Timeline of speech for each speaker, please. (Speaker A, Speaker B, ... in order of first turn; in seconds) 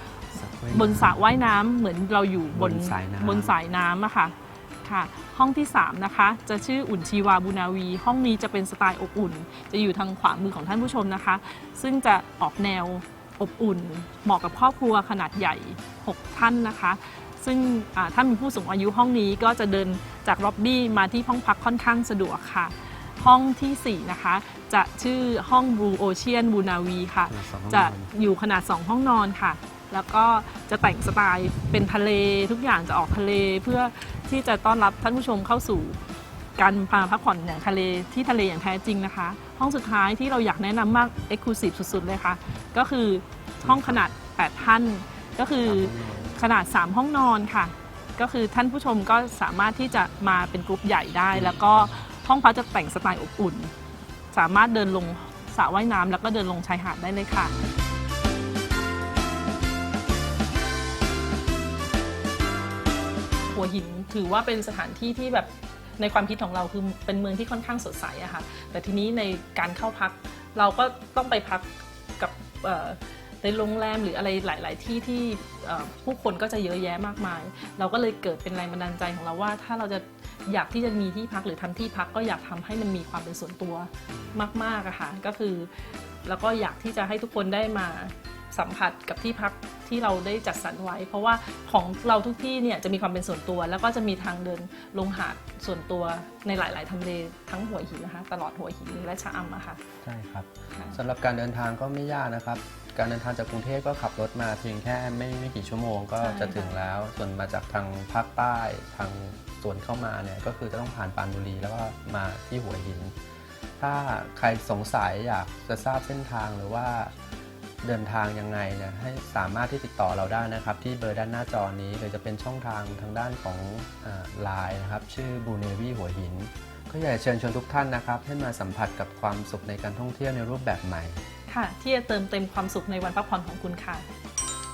Speaker A: 0.3-1.2, 2.5-3.6, 27.3-28.1, 43.6-44.1, 45.6-46.3, 51.3-52.0, 84.1-84.4, 100.0-113.1, 113.8-117.1, 117.8-131.2
Speaker B: 0.7-36.0, 36.6-53.7, 54.3-57.5, 63.5-85.7, 86.2-99.8, 106.2-106.8, 131.5-134.0